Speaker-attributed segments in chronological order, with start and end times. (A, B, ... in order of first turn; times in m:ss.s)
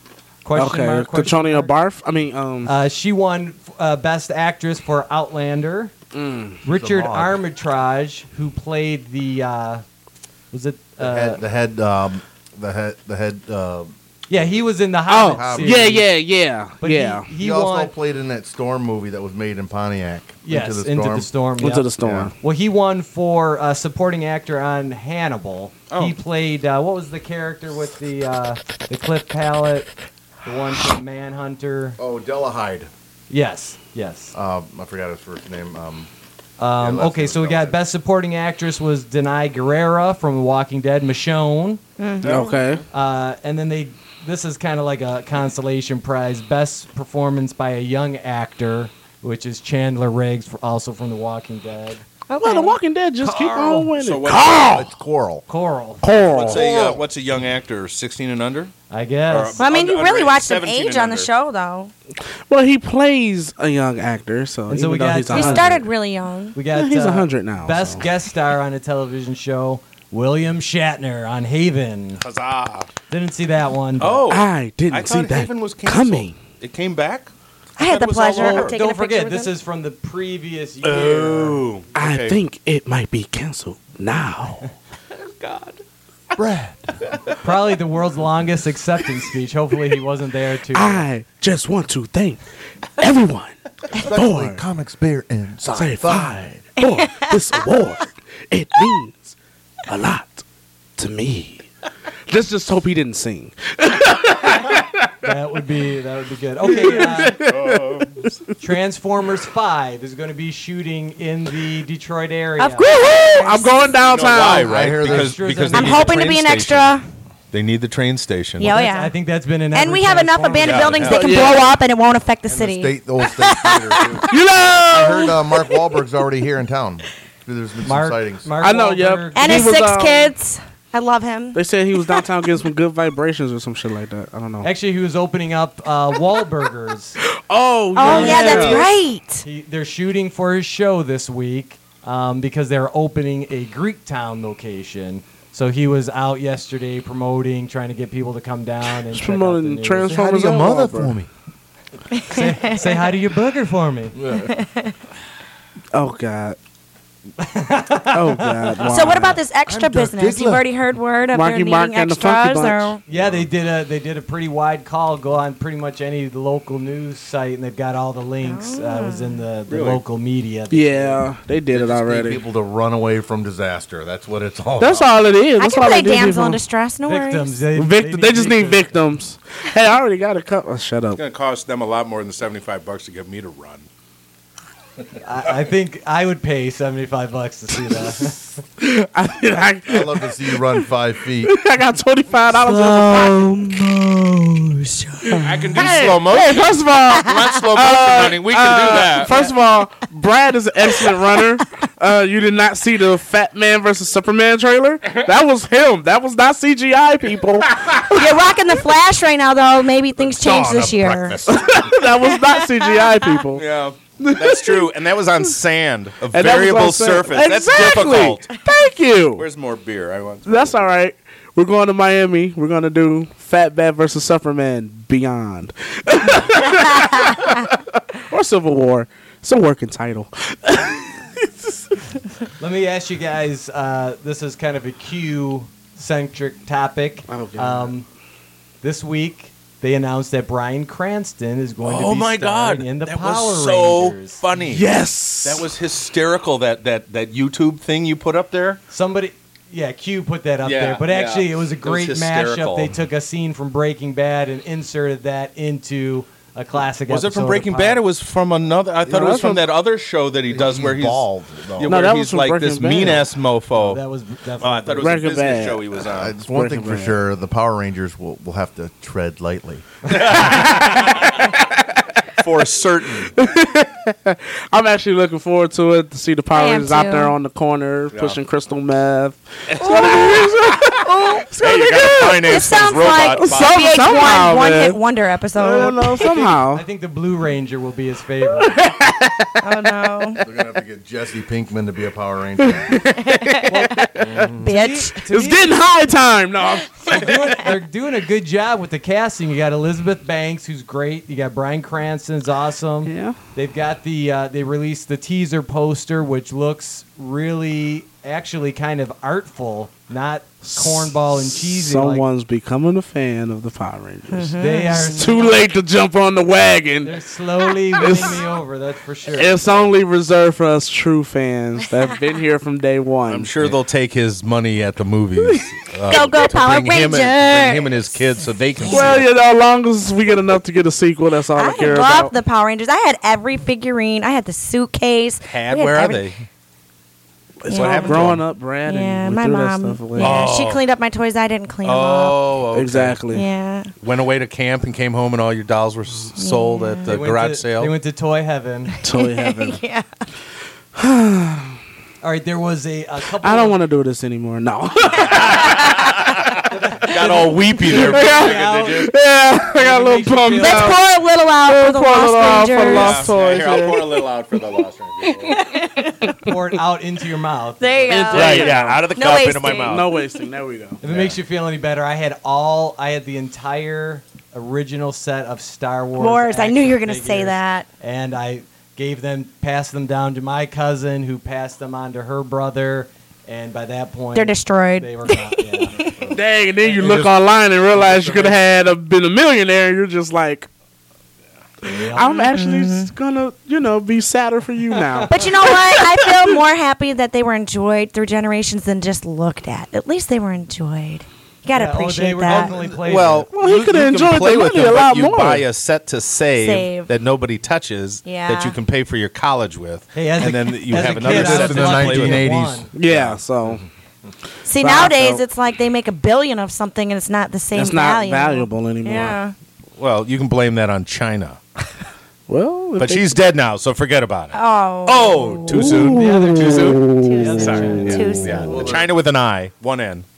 0:00.4-0:01.7 A
0:00.5-0:02.7 B
0:02.6-0:05.9 A
0:06.1-0:06.6 B
0:06.6-0:09.8 A
0:06.7-0:07.4 C
0:10.5-0:11.4 A
0:11.0-0:13.9 C
0:14.3-0:16.1 A
0:15.1-0:17.3 B
0:15.3-0:15.8 C
0:16.8-0:17.9 A
0:17.4-0:21.3 C
0:20.4-0:29.9 A
0:21.6-0:22.3 B
0:22.0-0:22.3 C
0:25.9-0:26.2 D
0:30.4-0:32.0 A
0:32.0-0:32.9 C
0:33.3-0:34.3 A
0:34.3-0:36.1 C
0:36.6-0:41.8 A
0:36.8-0:37.8 C
0:42.0-0:42.5 E
0:42.2-0:42.8 D
0:42.2-0:42.8 B
0:42.9-0:52.0 A
0:52.3-0:52.8 E
0:52.4-0:54.9 B
0:53.2-0:53.9 A
0:54.0-0:54.8 D
0:54.3-0:55.4 C
0:55.5-0:56.9 A
0:56.0-0:56.7 B
0:56.3-0:58.7 D
0:56.5-0:57.0 C
0:58.9-0:59.6 A
0:59.3-1:01.3 D
0:59.6-1:01.9 E
1:02.5-1:05.8 B
1:04.7-1:05.8 A
1:05.3-1:06.6 E
1:06.5-1:12.2 A
1:06.7-1:08.0 B
1:12.2-1:12.9 D
1:13.1-1:14.3 A
1:14.0-1:18.8 D
1:14.3-1:16.4 B
1:17.8-1:19.5 E
1:18.4-1:21.7 A
1:20.8-1:22.4 D
1:21.9-1:24.7 B
1:25.1-1:25.8 D
1:26.4-1:26.9 C
1:27.0-1:27.3 D
1:27.4-1:31.0 A
1:30.7-1:32.4 B
1:33.0-1:34.6 B
1:33.9-1:36.6 C
1:35.7-1:40.4 B
1:36.8-1:37.3 E
1:41.0-1:41.7 B
1:42.3-1:45.0 B
1:45.2-1:47.4 A
1:46.6-1:48.3 B
1:47.4-1:48.3 D
1:48.6-1:52.9 A
1:52.6-1:53.9 E
1:53.0-1:54.7 B
1:53.9-1:57.0 D
1:54.6-1:55.5 C
1:54.9-1:56.3 A
1:55.7-1:57.0 E
1:57.5-1:58.7 D
1:58.6-1:59.1 E
1:58.6-2:01.3 A
1:59.7-2:04.2 E
2:00.6-2:01.6 D
2:01.0-2:01.7 B
2:02.5-2:08.5 C
2:04.3-2:05.4 B
2:07.8-2:09.7 A
2:08.6-2:10.3 B
2:09.3-2:12.2 E
2:11.5-2:14.7 B
2:14.6-2:17.2 A
2:17.3-2:18.9 B
2:17.9-2:30.2 A
2:18.0-2:19.4 E
2:29.1-2:31.1 B
2:30.1-2:31.3 C
2:32.1-2:33.0 E
2:32.3-2:34.2 A
2:34.2-2:34.6 C
2:34.4-2:34.9 E
2:35.9-2:36.6 B
2:37.4-2:39.0 A
2:38.1-2:39.4 B
2:38.8-2:43.0 E
2:39.7-2:40.6 C
2:41.3-2:43.0 B
2:43.1-2:51.2 A
2:48.4-2:49.4 E
2:49.7-2:50.0 D
2:50.7-2:52.4 B
2:51.7-2:55.1 C
2:54.8-2:56.6 B
2:55.6-2:57.6 E
2:57.0-2:59.0 A
2:57.7-3:01.2 B
3:01.2-3:03.9 D
3:05.2-3:08.6 A
3:08.8-3:10.8 B
3:09.9-3:11.6 C
3:11.4-3:14.0 B
3:12.6-3:15.8 E
3:15.2-3:28.1 B
3:15.4-3:19.4 D
3:28.1-3:31.4 E
3:30.3-3:31.9 C
3:31.5-3:33.6 B
3:32.3-3:33.4 E
3:33.5-3:38.6 D
3:34.2-3:34.9 B
3:36.3-3:39.4 B
3:39.4-3:40.8 D
3:40.4-3:51.8 B
3:52.6-3:58.0 A
3:57.3-3:57.9 B
3:58.8-4:04.4 A
4:01.8-4:04.9 D
4:04.6-4:05.7 B
4:05.4-4:08.8 D
4:08.9-4:18.0 A
4:10.6-4:12.9 D
4:17.1-4:24.0 D
4:19.0-4:19.6 B
4:20.5-4:22.1 C
4:21.8-4:23.3 B
4:23.7-4:25.2 A
4:24.6-4:26.4 D
4:25.0-4:25.9 B
4:26.0-4:30.5 C
4:26.5-4:27.2 B
4:30.1-4:31.5 D
4:32.3-4:33.3 D
4:33.3-4:42.6 B
4:36.5-4:37.3 E
4:39.7-4:40.9 D
4:39.9-4:40.3 E
4:41.0-4:41.5 E
4:41.6-4:43.9 D
4:42.3-4:46.3 E
4:43.2-4:45.0 B
4:45.6-4:46.8 B
4:45.8-4:48.8 A
4:48.6-4:49.6 B
4:49.6-4:50.4 E
4:50.4-4:53.1 C
4:52.6-4:54.5 B
4:53.1-4:53.9 E
4:53.6-4:55.8 A
4:54.6-4:55.2 E
4:55.2-4:57.6 B
4:57.0-5:12.2 A
5:03.0-5:03.4 B
5:10.7-5:17.2 B
5:14.3-5:15.1 E
5:14.6-5:15.6 A
5:17.0-5:19.9 A
5:18.0-5:18.4 B
5:19.3-5:23.8 B
5:23.3-5:29.3 D
5:25.4-5:25.8 B
5:26.1-5:28.1 E
5:28.8-5:32.3 B
5:28.8-5:29.1 E
5:31.6-5:36.3 E
5:35.5-5:36.4 D
5:37.6-5:40.5 B
5:37.6-5:38.3 E
5:37.7-5:38.4 D
5:38.9-5:42.4 E
5:40.2-5:40.8 D
5:41.8-5:43.2 D
5:42.7-5:43.4 B
5:43.3-5:43.9 E
5:44.0-5:47.9 D
5:46.4-5:47.1 E
5:47.0-5:49.0 A
5:49.0-5:49.8 B
5:49.0-5:50.1 E
5:51.0-5:51.8 B
5:52.2-5:53.8 A
5:53.4-5:56.0 B
5:55.2-5:59.1 D
5:55.4-5:55.7 E
5:56.7-5:59.1 A
5:57.9-6:01.0 B
5:59.7-6:01.0 A
6:00.6-6:03.3 E
6:01.7-6:04.1 B
6:02.8-6:05.6 D
6:04.6-6:06.5 E
6:06.4-6:09.0 A
6:07.8-6:10.2 E
6:08.1-6:09.0 B
6:08.3-6:10.1 D
6:09.5-6:11.0 B
6:11.0-6:27.3 A
6:11.0-6:11.4 D
6:16.2-6:17.9 E
6:24.3-6:26.1 E
6:26.3-6:30.7 B
6:27.9-6:28.6 A
6:31.8-6:32.4 A
6:31.8-6:36.6 B
6:32.2-6:33.1 E
6:35.0-6:35.4 A
6:35.3-6:42.7 E
6:41.7-6:43.5 A
6:42.5-6:52.5 D
6:43.5-6:45.6 B
6:46.6-6:47.1 E
6:48.2-6:48.8 E
6:50.1-6:52.9 A
6:51.1-6:52.9 C
6:52.9-6:53.8 B
6:53.0-6:53.4 D
6:54.6-6:59.5 E
6:54.8-6:55.4 B
6:57.7-6:59.4 B
7:00.0-7:01.6 D
7:02.5-7:03.4 B
7:03.0-7:10.2 D
7:04.5-7:05.9 E
7:05.7-7:07.9 B
7:06.0-7:08.3 A
7:07.2-7:09.0 E
7:08.4-7:09.1 C